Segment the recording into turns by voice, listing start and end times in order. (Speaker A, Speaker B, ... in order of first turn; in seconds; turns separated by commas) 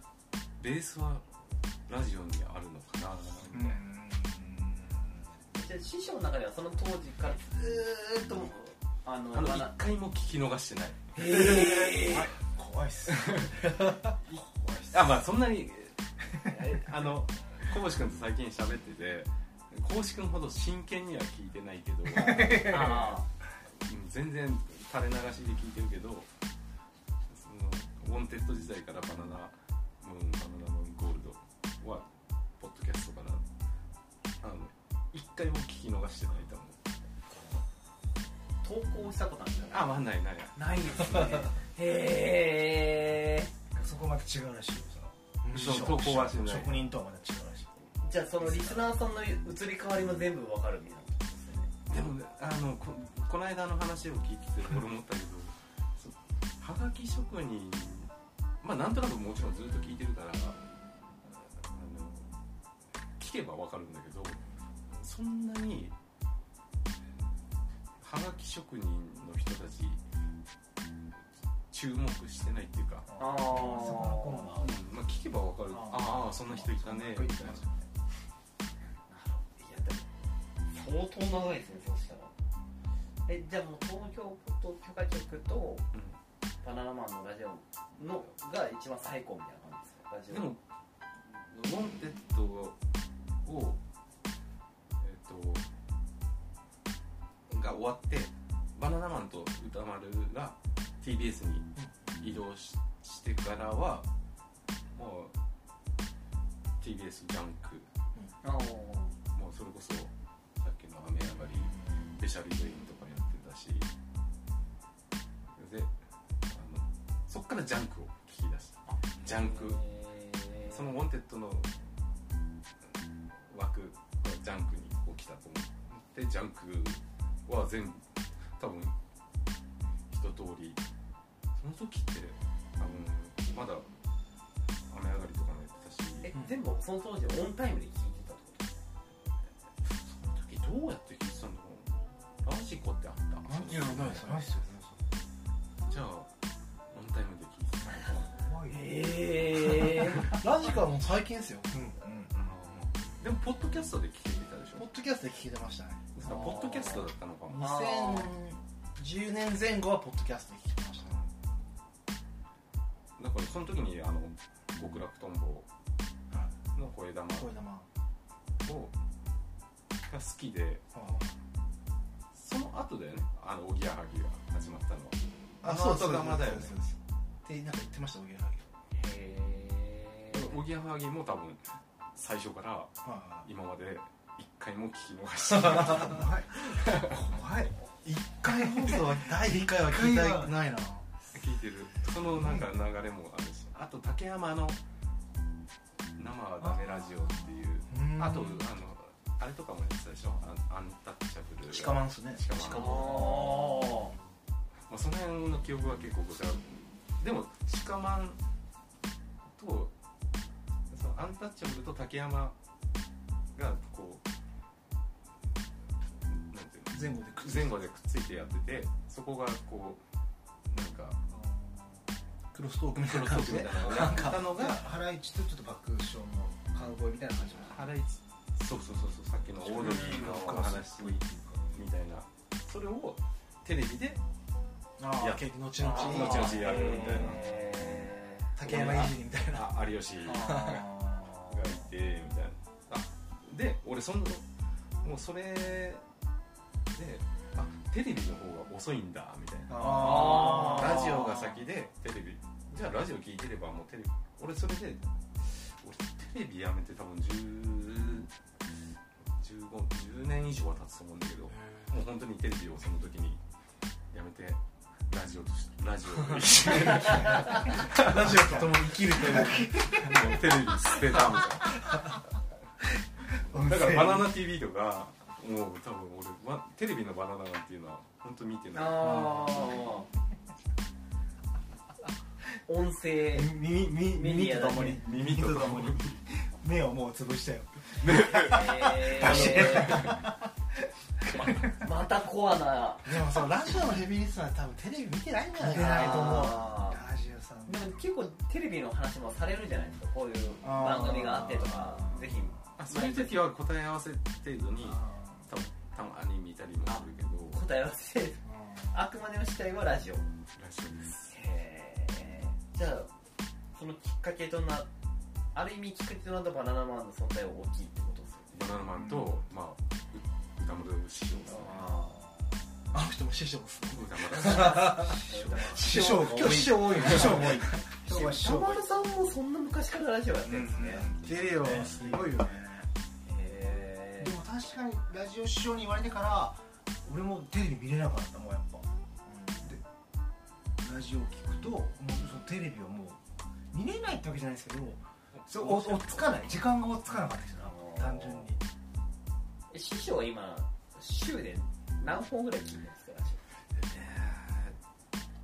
Speaker A: 0.6-1.2, Speaker A: 1.9-3.8, Speaker B: 3.5-5.3, Speaker C: 5.5-9.7, Speaker A: 9.3-11.0, Speaker C: 11.1-12.3, Speaker B: 11.2-15.2, Speaker A: 13.1-14.1, Speaker A: 14.9-26.3, Speaker B: 22.1-23.1, Speaker C: 22.5-23.2, Speaker A: 27.3-32.1, Speaker A: 32.6-33.4, Speaker A: 34.4-36.8, Speaker C: 38.6-40.0, Speaker A: 39.7-41.5, Speaker C: 40.5-43.5, Speaker B: 43.7-47.7, Speaker D: 45.4-46.0, Speaker A: 45.5-46.9, Speaker C: 48.0-51.7, Speaker B: 48.4-48.9, Speaker A: 51.9-58.1, Speaker A: 58.6-60.6, Speaker A: 61.6-62.3, Speaker A: 63.2-65.9, Speaker A: 68.0-70.0, Speaker A: 71.7-73.1, Speaker B: 73.1-74.8, Speaker C: 73.2-74.6, Speaker A: 74.6-77.6, Speaker B: 75.7-77.8, Speaker C: 79.1-80.1, Speaker C: 80.7-82.3, Speaker C: 83.2-85.8, Speaker C: 86.6-90.5, Speaker A: 90.3-90.6, Speaker A: 91.2-92.8, Speaker A: 93.4-93.8, Speaker A: 95.0-95.7, Speaker A: 97.5-104.1, Speaker A: 104.9-105.3, Speaker A: 106.8-107.9, Speaker C: 108.4-109.1, Speaker A: 109.3-113.9, Speaker A: 115.5-115.9, Speaker A: 116.5-119.8, Speaker C: 118.9-120.8, Speaker A: 120.7-121.7, Speaker A: 123.5-128.0, Speaker A: 128.6-128.9, Speaker A: 130.1-130.8, Speaker A: 131.6-133.9, Speaker A: 134.9-136.3, Speaker C: 136.2-138.7, Speaker A: 139.8-144.2, Speaker D: 143.5-144.6, Speaker B: 144.1-145.0, Speaker A: 145.8-146.3, Speaker A: 146.9-148.3, Speaker B: 148.3-149.0, Speaker C: 148.7-150.4, Speaker D: 150.3-151.7, Speaker B: 151.7-152.8, Speaker A: 152.3-154.9, Speaker D: 154.8-156.0, Speaker A: 156.1-157.7, Speaker C: 156.2-158.3, Speaker D: 157.5-161.2, Speaker A: 163.2-165.7, Speaker A: 166.7-167.5, Speaker D: 167.3-167.9, Speaker A: 168.6-168.9, Speaker A: 170.1-170.8, Speaker D: 170.9-171.3, Speaker A: 172.3-176.8, Speaker D: 175.6-178.7, Speaker C: 178.9-180.6, Speaker A: 180.3-182.9, Speaker D: 183.0-183.4, Speaker A: 183.4-187.1, Speaker B: 185.8-187.7, Speaker D: 188.0-191.1, Speaker B: 188.4-189.0, Speaker B: 189.7-190.5, Speaker A: 191.3-194.8, Speaker A: 196.2-203.5, Speaker B: 196.6-197.4, Speaker D: 197.9-198.5, Speaker D: 201.7-203.4, Speaker C: 202.7-204.1, Speaker A: 204.9-208.4, Speaker A: 209.5-209.9, Speaker A: 210.9-212.6, Speaker A: 213.5-214.2, Speaker A: 216.3-220.0, Speaker D: 216.9-217.8, Speaker A: 220.7-221.2, Speaker B: 221.3-222.0, Speaker D: 222.5-224.5, Speaker A: 223.0-224.8, Speaker B: 223.8-227.8, Speaker A: 227.6-231.2, Speaker B: 229.6-231.7, Speaker C: 229.8-230.2, Speaker D: 229.8-230.8, Speaker A: 231.7-234.2, Speaker D: 235.0-236.7, Speaker A: 235.2-237.5, Speaker C: 235.8-238.5, Speaker B: 236.8-237.9, Speaker D: 238.6-239.7, Speaker A: 238.6-244.4, Speaker B: 240.3-241.8, Speaker A: 245.0-246.0, Speaker A: 246.9-258.3, Speaker B: 249.7-251.1, Speaker C: 250.0-251.2, Speaker A: 259.4-263.4, Speaker D: 261.6-261.9, Speaker A: 264.1-272.1, Speaker D: 266.6-270.2, Speaker B: 269.2-270.4, Speaker B: 273.5-274.3, Speaker A: 273.5-279.3, Speaker C: 278.7-280.1, Speaker B: 279.0-279.5, Speaker C: 282.6-285.0, Speaker B: 283.3-290.5, Speaker A: 284.9-286.2, Speaker A: 288.0-290.1, Speaker C: 288.4-290.1, Speaker B: 291.2-291.9, Speaker C: 291.3-293.1, Speaker D: 293.0-296.6, Speaker B: 295.6-297.9, Speaker C: 295.7-297.0, Speaker C: 297.6-303.4, Speaker D: 300.6-301.6, Speaker B: 301.4-302.5, Speaker A: 302.8-307.6, Speaker B: 304.8-305.4, Speaker C: 306.9-310.3, Speaker D: 308.4-308.9, Speaker A: 310.6-311.3, Speaker C: 311.2-313.1, Speaker C: 313.7-314.9, Speaker C: 315.5-318.6, Speaker A: 318.5-321.8, Speaker C: 321.5-322.2, Speaker B: 321.6-322.4, Speaker D: 322.9-327.8, Speaker A: 323.9-325.0, Speaker B: 324.5-328.8, Speaker C: 325.2-325.8, Speaker C: 328.1-331.1, Speaker B: 330.4-332.5, Speaker D: 331.2-332.9, Speaker C: 333.2-334.4, Speaker B: 334.2-338.9, Speaker D: 339.2-339.7, Speaker B: 340.8-343.2, Speaker B: 343.7-348.6, Speaker A: 345.4-346.6, Speaker C: 347.6-348.5, Speaker C: 349.7-353.4, Speaker A: 353.7-354.8